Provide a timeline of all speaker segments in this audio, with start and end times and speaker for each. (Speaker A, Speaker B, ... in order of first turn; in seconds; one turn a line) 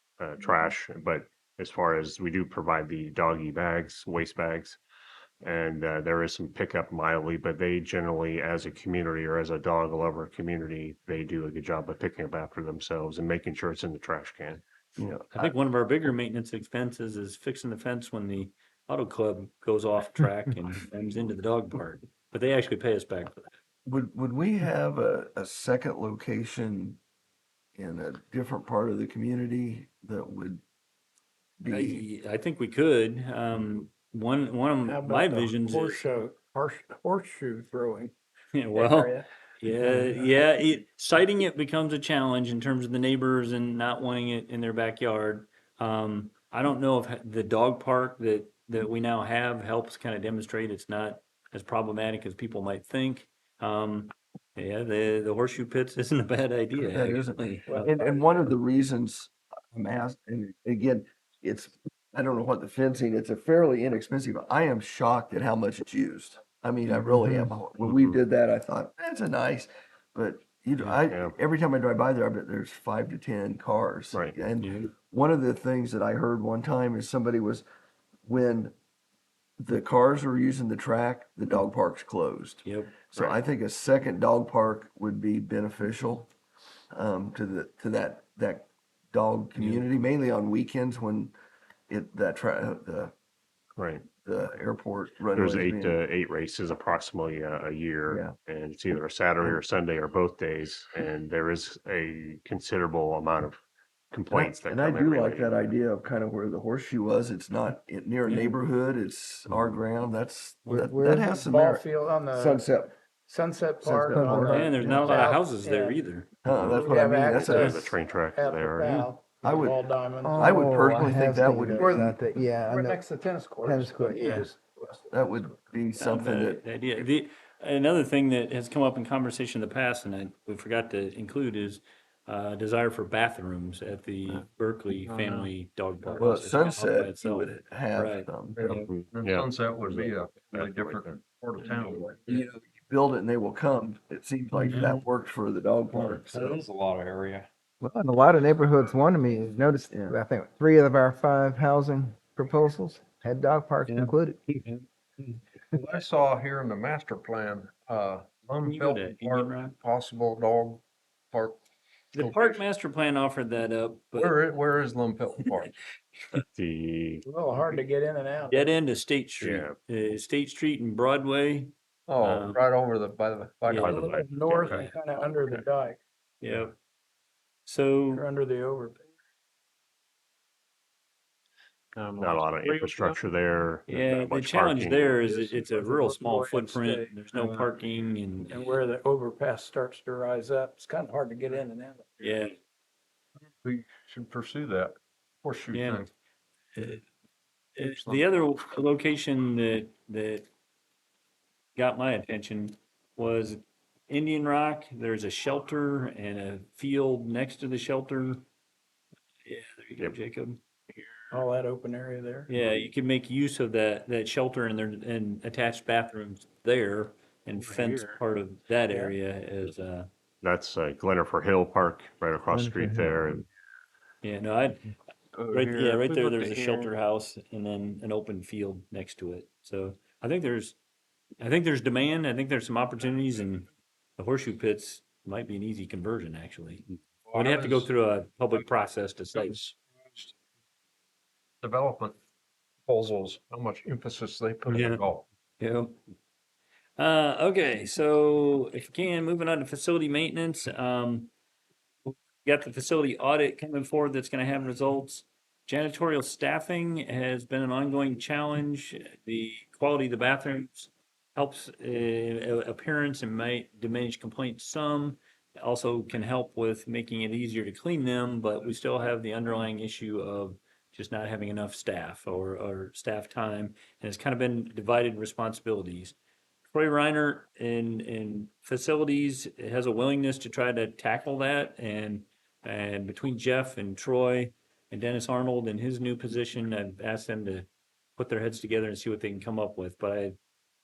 Speaker A: 0.2-4.8
Speaker A: 5.4-15.2
Speaker B: 15.0-15.5
Speaker C: 15.3-23.5
Speaker B: 23.9-27.0
Speaker B: 27.8-30.6
Speaker B: 31.6-32.0
Speaker C: 31.7-36.0
Speaker D: 34.9-38.1
Speaker C: 38.5-58.0
Speaker D: 38.7-39.3
Speaker B: 56.8-77.6
Speaker D: 57.7-58.3
Speaker A: 67.8-68.2
Speaker A: 70.9-71.3
Speaker A: 74.1-74.4
Speaker C: 74.6-74.9
Speaker B: 78.2-78.7
Speaker B: 79.6-86.3
Speaker C: 82.6-82.9
Speaker B: 86.9-91.3
Speaker C: 89.6-89.8
Speaker B: 91.9-93.1
Speaker A: 93.8-94.0
Speaker B: 94.2-96.0
Speaker A: 95.3-103.6
Speaker A: 104.1-105.6
Speaker B: 104.3-112.9
Speaker A: 109.5-109.8
Speaker E: 110.7-111.4
Speaker D: 111.3-112.7
Speaker D: 113.3-116.0
Speaker B: 113.8-115.2
Speaker E: 114.1-115.1
Speaker C: 114.5-116.3
Speaker B: 116.4-117.9
Speaker A: 116.5-119.0
Speaker D: 116.7-120.5
Speaker B: 119.4-119.8
Speaker E: 120.2-123.0
Speaker B: 120.3-122.2
Speaker D: 121.7-122.0
Speaker D: 122.7-125.0
Speaker E: 123.6-124.5
Speaker B: 125.1-126.7
Speaker C: 126.0-138.8
Speaker F: 134.9-135.5
Speaker F: 136.0-136.4
Speaker B: 136.2-138.6
Speaker F: 138.6-142.4
Speaker A: 138.8-141.1
Speaker B: 142.2-146.4
Speaker C: 144.7-145.0
Speaker F: 144.7-145.0
Speaker F: 145.9-147.5
Speaker C: 146.3-146.6
Speaker E: 147.8-154.6
Speaker C: 153.9-154.8
Speaker F: 155.7-161.6
Speaker C: 158.6-159.8
Speaker C: 162.1-164.4
Speaker F: 162.1-162.6
Speaker F: 164.1-165.7
Speaker A: 166.4-167.2
Speaker D: 167.2-168.7
Speaker C: 168.5-171.7
Speaker A: 169.4-169.7
Speaker F: 172.1-174.1
Speaker C: 172.2-172.6
Speaker C: 173.7-174.0
Speaker A: 173.8-175.6
Speaker D: 173.8-176.0
Speaker C: 176.4-176.8
Speaker C: 177.7-178.3
Speaker D: 178.1-179.0
Speaker F: 181.9-183.2
Speaker A: 182.2-185.3
Speaker C: 183.9-188.8
Speaker D: 185.4-187.1
Speaker F: 187.3-187.7
Speaker D: 188.5-192.4
Speaker C: 192.2-192.5
Speaker F: 193.4-196.1
Speaker C: 195.7-196.1
Speaker C: 196.7-197.0
Speaker C: 197.8-200.5
Speaker F: 197.8-198.2
Speaker C: 201.8-208.4
Speaker C: 209.4-210.6
Speaker D: 211.3-212.5
Speaker C: 212.5-220.1
Speaker D: 218.9-219.1
Speaker A: 220.4-223.4
Speaker C: 224.2-224.9
Speaker F: 225.3-226.9
Speaker C: 225.5-230.8
Speaker C: 231.4-239.6
Speaker F: 237.2-237.9
Speaker F: 239.3-240.3
Speaker F: 241.6-242.1
Speaker F: 242.8-245.2
Speaker C: 244.7-245.0
Speaker C: 245.6-246.0
Speaker C: 247.0-251.3
Speaker C: 252.1-276.1
Speaker C: 276.7-290.4